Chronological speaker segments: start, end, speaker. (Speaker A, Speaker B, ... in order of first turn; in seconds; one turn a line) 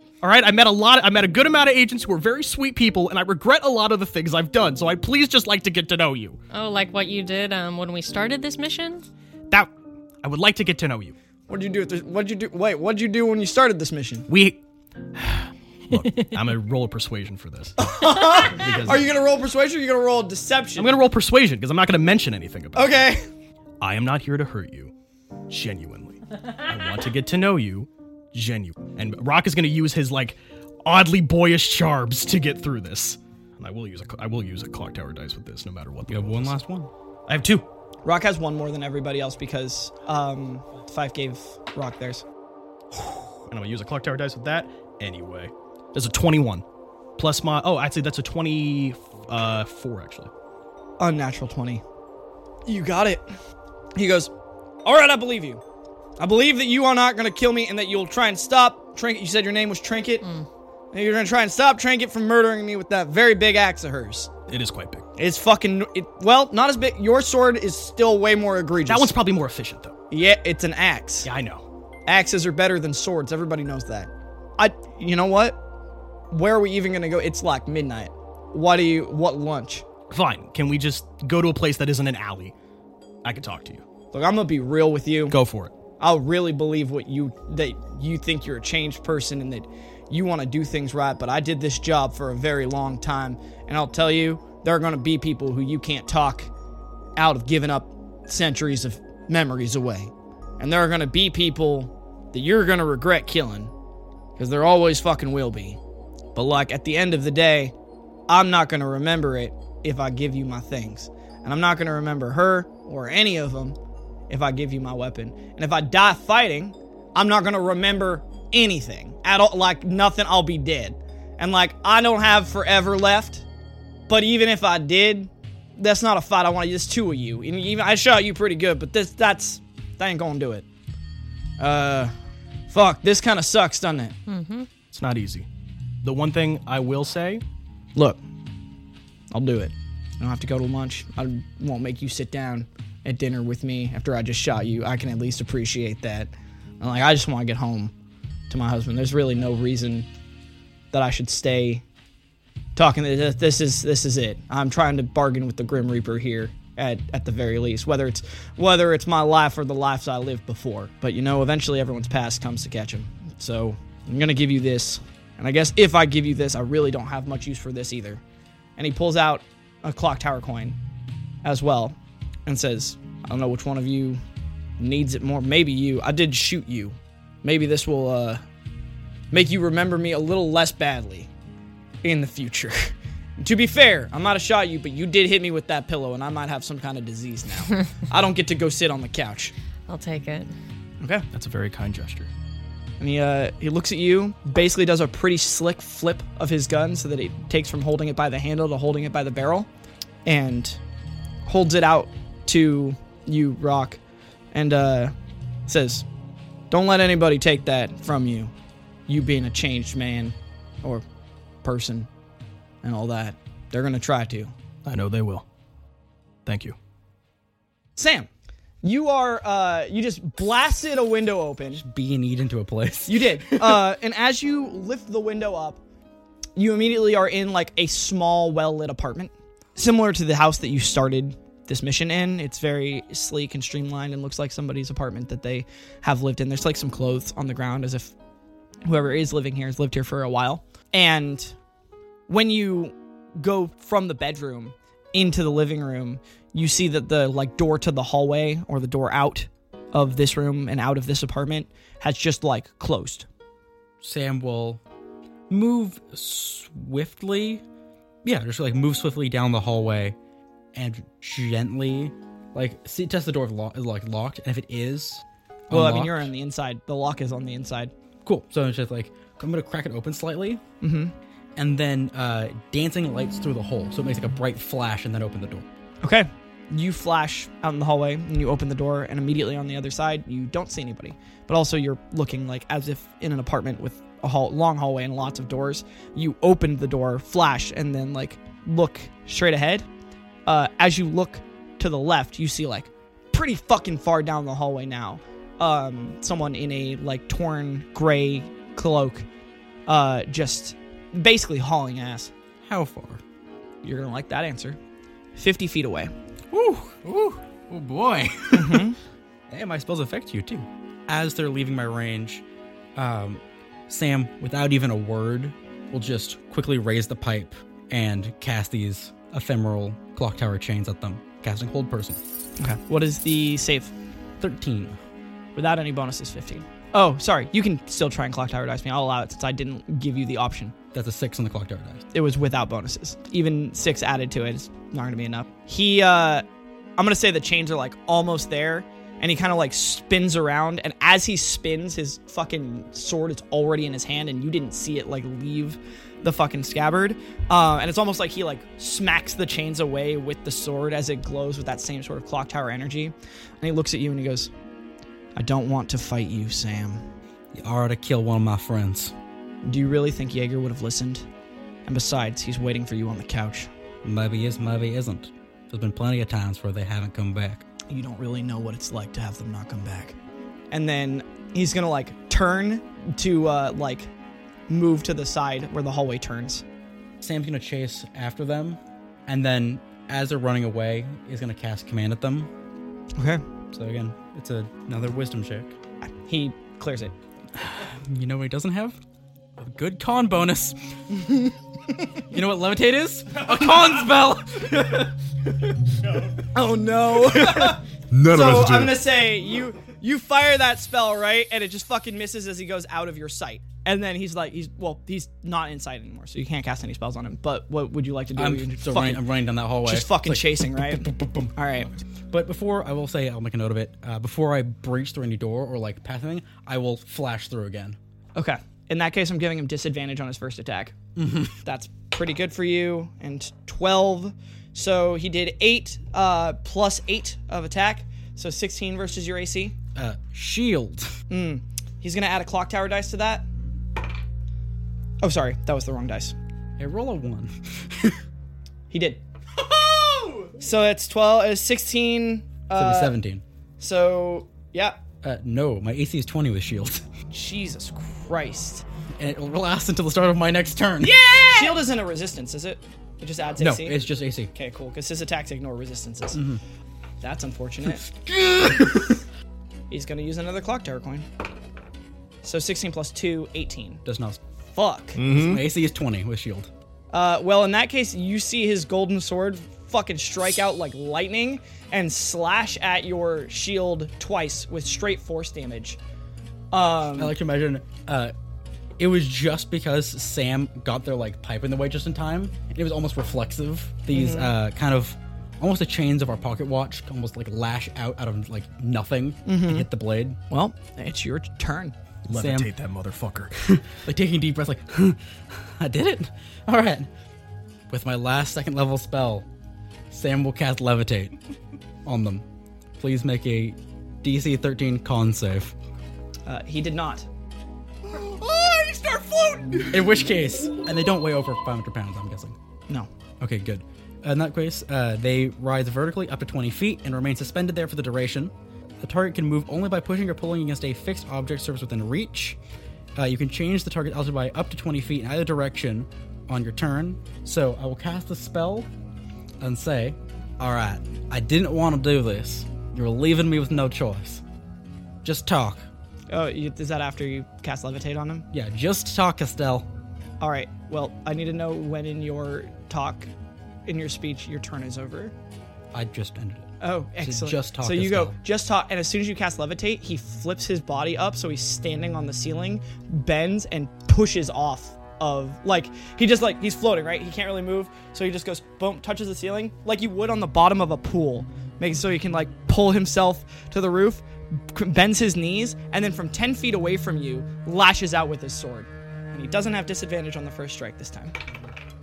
Speaker A: 0.2-6.4
Speaker B: 6.5-9.1
Speaker A: 10.2-11.2
Speaker C: 11.5-14.3
Speaker A: 14.3-14.6
Speaker A: 15.1-19.0
Speaker C: 17.8-21.0
Speaker A: 20.8-22.9
Speaker C: 22.8-23.3
Speaker A: 23.8-24.9
Speaker A: 25.5-36.6
Speaker D: 36.1-36.9
Speaker A: 37.3-37.7
Speaker C: 38.0-42.2
Speaker A: 42.9-46.6
Speaker A: 47.2-50.3
Speaker C: 51.0-51.8
Speaker C: 52.7-53.3
Speaker C: 54.0-54.3
Speaker C: 54.9-55.6
Speaker C: 56.2-60.3
Speaker C: 60.9-64.3
Speaker A: 64.5-65.0
Speaker C: 65.2-69.1
Speaker A: 68.9-69.9
Speaker C: 70.1-71.3
Speaker A: 71.2-71.7
Speaker C: 72.1-75.6
Speaker C: 76.3-79.8
Speaker A: 80.1-82.5
Speaker A: 83.2-83.8
Speaker C: 84.1-85.4
Speaker A: 85.3-85.7
Speaker C: 86.0-96.5
Speaker C: 97.2-103.7
Speaker C: 104.4-105.8
Speaker C: 106.3-107.7
Speaker C: 108.3-113.8
Speaker C: 114.3-123.5
Speaker C: 124.1-130.7
Speaker C: 131.6-132.1
Speaker C: 132.7-134.2
Speaker B: 134.3-134.7
Speaker A: 134.9-135.5
Speaker A: 136.0-137.4
Speaker C: 137.9-138.2
Speaker C: 139.3-147.9
Speaker C: 148.5-150.1
Speaker C: 150.9-151.8
Speaker C: 152.8-168.2
Speaker C: 168.8-170.8
Speaker C: 171.4-174.2
Speaker C: 174.8-178.4
Speaker C: 179.3-181.3
Speaker C: 182.0-189.5
Speaker B: 189.9-190.5
Speaker A: 191.3-192.3
Speaker C: 193.0-199.7
Speaker C: 200.2-200.8
Speaker C: 201.5-204.0
Speaker C: 204.5-205.1
Speaker C: 205.7-206.1
Speaker C: 206.7-208.5
Speaker C: 209.1-211.0
Speaker C: 211.6-212.1
Speaker C: 212.8-214.5
Speaker A: 214.8-215.5
Speaker A: 216.5-216.8
Speaker C: 218.0-218.3
Speaker C: 218.8-221.8
Speaker D: 221.8-223.9
Speaker C: 223.1-225.8
Speaker C: 226.6-238.2
Speaker C: 238.8-241.6
Speaker C: 242.3-253.3
Speaker D: 254.0-254.8
Speaker D: 255.5-257.6
Speaker D: 258.2-260.2
Speaker D: 260.7-266.3
Speaker C: 265.7-267.9
Speaker D: 268.2-270.6
Speaker C: 270.8-271.1
Speaker D: 271.6-275.7
Speaker C: 276.0-289.9
Speaker C: 290.5-299.3
Speaker C: 299.9-302.3
Speaker D: 302.6-303.2
Speaker C: 303.8-304.8
Speaker C: 305.4-306.1
Speaker D: 306.5-308.9
Speaker C: 308.6-309.0
Speaker D: 309.5-312.4
Speaker D: 313.0-322.2
Speaker C: 322.6-323.9
Speaker D: 324.4-325.0
Speaker C: 325.6-330.7
Speaker D: 330.9-332.1
Speaker C: 332.1-336.4
Speaker C: 337.0-354.5
Speaker C: 355.4-357.0
Speaker D: 357.5-359.1
Speaker C: 359.6-361.3
Speaker C: 361.9-363.7
Speaker D: 364.0-367.6
Speaker C: 367.9-370.2
Speaker C: 370.7-374.1
Speaker C: 374.7-376.6
Speaker D: 377.2-382.5
Speaker C: 383.2-383.4
Speaker D: 383.7-385.8
Speaker C: 386.3-387.1
Speaker D: 387.7-389.0
Speaker D: 389.6-390.8
Speaker C: 391.1-391.5
Speaker D: 392.3-395.1
Speaker C: 396.5-409.3
Speaker D: 397.5-398.9
Speaker D: 408.4-418.0
Speaker C: 409.8-411.9
Speaker C: 418.4-421.0
Speaker D: 421.2-421.5
Speaker C: 421.6-429.8
Speaker D: 429.9-431.1
Speaker C: 431.3-433.5
Speaker C: 435.2-436.4
Speaker D: 436.8-438.2
Speaker C: 438.9-439.2
Speaker D: 439.7-440.5
Speaker C: 440.6-443.1
Speaker D: 442.8-443.4
Speaker C: 443.8-445.0
Speaker D: 445.2-447.1
Speaker C: 447.3-448.9
Speaker D: 449.2-451.8
Speaker C: 451.0-454.0
Speaker D: 453.6-454.5
Speaker C: 454.6-456.4
Speaker D: 456.3-456.6
Speaker C: 457.2-458.1
Speaker D: 457.9-459.2
Speaker C: 459.9-461.3
Speaker C: 462.4-464.0
Speaker D: 464.1-464.4
Speaker C: 464.7-465.2
Speaker A: 465.2-465.6
Speaker D: 465.2-466.7
Speaker C: 467.1-476.0
Speaker C: 476.7-477.4
Speaker D: 477.1-478.3
Speaker D: 479.0-490.4
Speaker C: 484.1-484.5
Speaker C: 489.5-489.9
Speaker C: 490.5-491.9
Speaker A: 492.2-493.5
Speaker D: 492.3-492.7
Speaker D: 493.6-497.1
Speaker D: 497.9-499.5
Speaker D: 500.1-501.4
Speaker D: 502.1-502.4
Speaker D: 503.0-505.8
Speaker C: 506.5-507.3
Speaker A: 508.2-509.8
Speaker D: 509.9-512.6
Speaker D: 513.4-522.6
Speaker D: 523.2-528.9
Speaker D: 529.6-534.4
Speaker D: 535.2-535.9
Speaker C: 536.3-538.5
Speaker D: 538.5-539.9
Speaker C: 540.4-543.3
Speaker C: 543.9-545.3
Speaker D: 545.9-548.4
Speaker C: 546.8-571.4